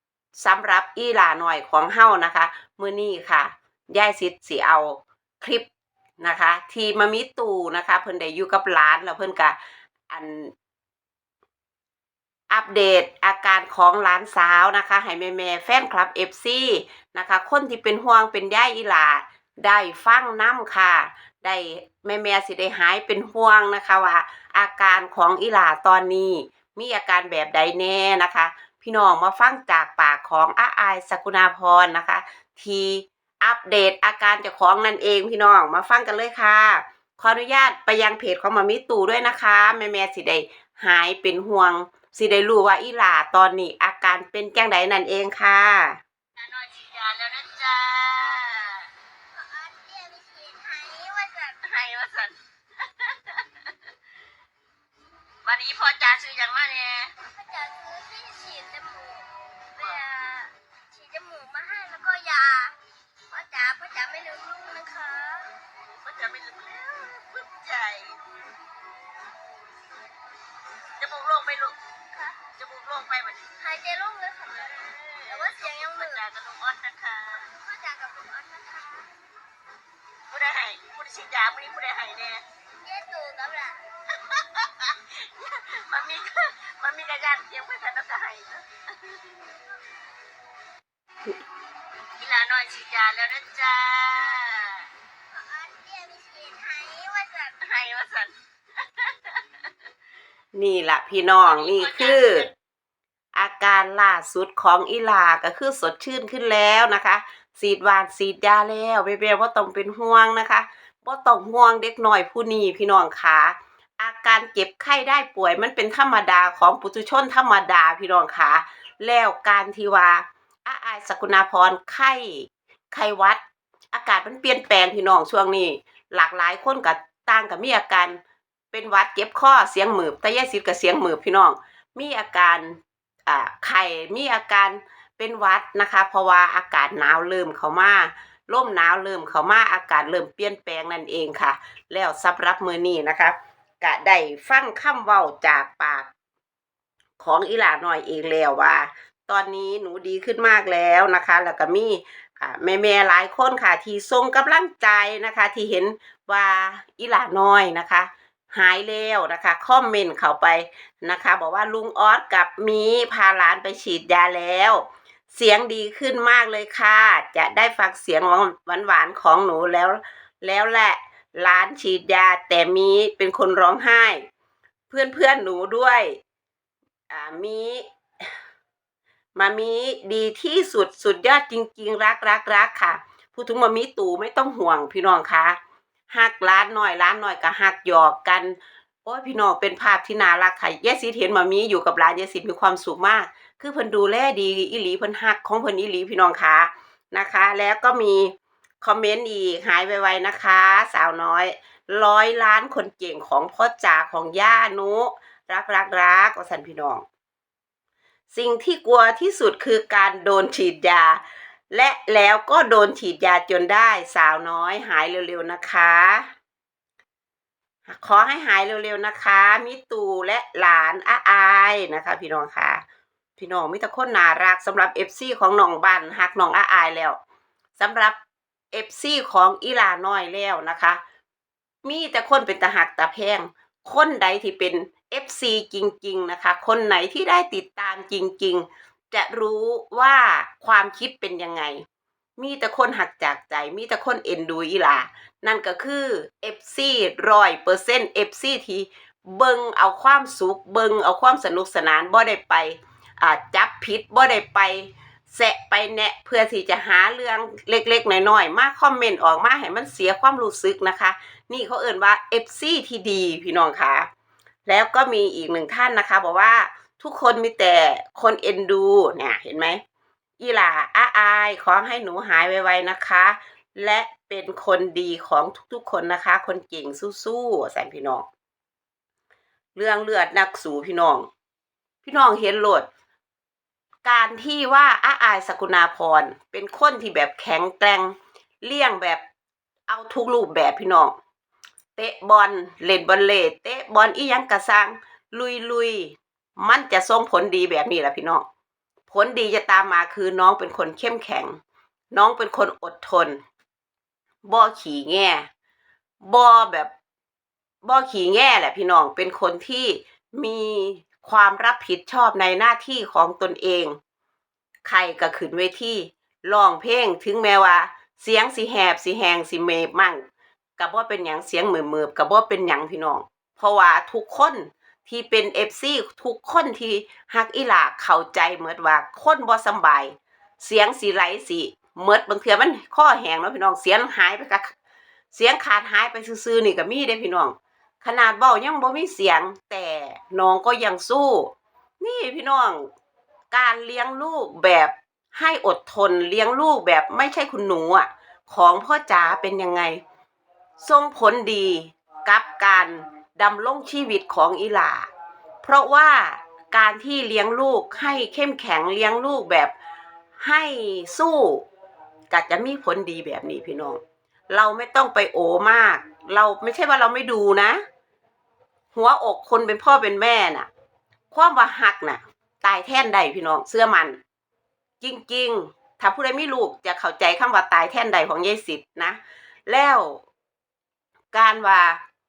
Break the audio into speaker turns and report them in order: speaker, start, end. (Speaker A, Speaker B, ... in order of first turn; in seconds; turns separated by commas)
Speaker A: 0.3-5.7, Speaker A: 6.2-9.6, Speaker A: 10.1-10.5, Speaker A: 12.5-46.0, Speaker B: 46.4-48.9, Speaker C: 49.3-51.7, Speaker B: 51.6-53.4, Speaker B: 55.4-57.1, Speaker C: 57.2-62.8, Speaker C: 63.3-65.6, Speaker B: 65.8-68.2, Speaker B: 71.0-71.8, Speaker C: 72.1-72.4, Speaker B: 72.4-73.6, Speaker C: 73.6-76.2, Speaker B: 74.5-77.5, Speaker C: 77.3-79.1, Speaker B: 80.3-82.4, Speaker C: 82.8-83.8, Speaker B: 84.3-89.2, Speaker B: 92.2-94.9, Speaker C: 95.3-97.7, Speaker B: 97.6-99.4, Speaker A: 100.5-102.5, Speaker B: 101.5-102.5, Speaker A: 103.3-123.4, Speaker A: 123.9-128.2, Speaker A: 128.7-146.1, Speaker A: 147.2-174.2, Speaker A: 174.9-176.2, Speaker A: 177.1-177.8, Speaker A: 179.3-185.6, Speaker A: 186.1-207.0, Speaker A: 208.3-216.3, Speaker A: 217.9-222.8, Speaker A: 223.4-227.2, Speaker A: 227.8-228.2, Speaker A: 228.7-231.0, Speaker A: 231.8-241.8, Speaker A: 242.4-264.1, Speaker A: 264.6-269.8, Speaker A: 270.4-278.2, Speaker A: 279.8-281.3, Speaker A: 282.0-282.9, Speaker A: 284.0-289.2, Speaker A: 289.9-291.1, Speaker A: 291.9-298.4, Speaker A: 299.1-301.6, Speaker A: 302.1-303.4, Speaker A: 304.4-305.4, Speaker A: 306.2-306.9, Speaker A: 307.8-314.0, Speaker A: 314.9-320.2, Speaker A: 320.8-334.7, Speaker A: 335.3-342.9, Speaker A: 343.5-350.0, Speaker A: 350.8-355.1, Speaker A: 355.6-359.7, Speaker A: 360.4-361.6, Speaker A: 362.3-364.0, Speaker A: 364.5-367.8, Speaker A: 368.9-370.7, Speaker A: 371.3-374.2, Speaker A: 375.0-380.2, Speaker A: 381.3-382.0